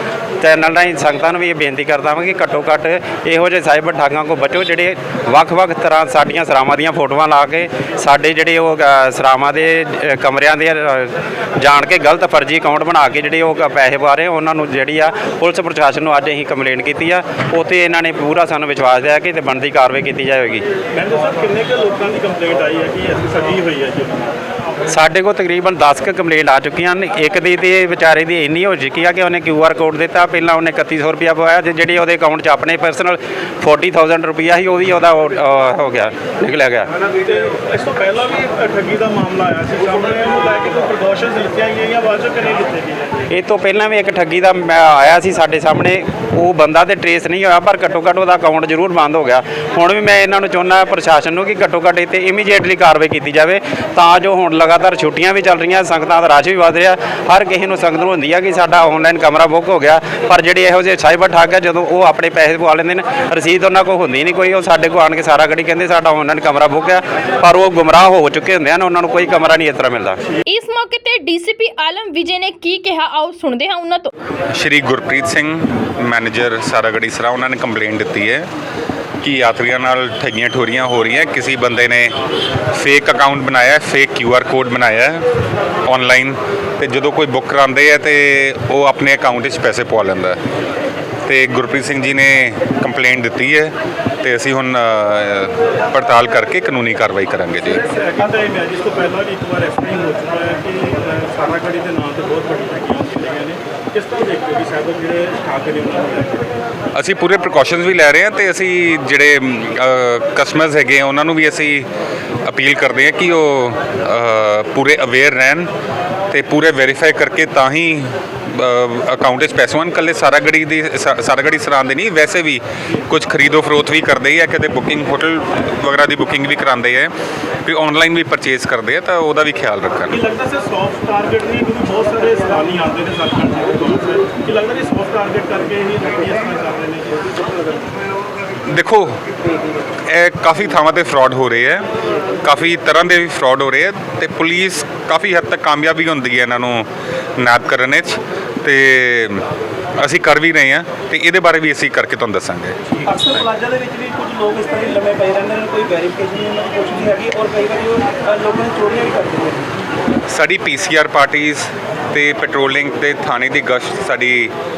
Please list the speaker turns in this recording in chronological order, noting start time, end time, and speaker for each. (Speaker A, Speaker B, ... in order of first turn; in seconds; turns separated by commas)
Speaker A: 0.4-20.6, Speaker B: 20.9-24.4, Speaker A: 24.9-36.9, Speaker B: 37.2-43.2, Speaker A: 43.3-70.2, Speaker C: 70.5-74.1, Speaker D: 74.5-78.5, Speaker D: 79.2-82.1, Speaker D: 82.7-85.2, Speaker D: 85.8-90.4, Speaker D: 91.2-97.8, Speaker B: 97.9-106.5, Speaker D: 106.9-111.9, Speaker D: 112.4-115.7, Speaker D: 116.3-127.1, Speaker D: 127.7-130.2, Speaker B: 130.1-137.3, Speaker D: 138.7-139.2, Speaker D: 140.1-141.9, Speaker D: 142.4-149.4, Speaker D: 150.0-152.8, Speaker E: 153.1-159.7, Speaker D: 160.3-164.5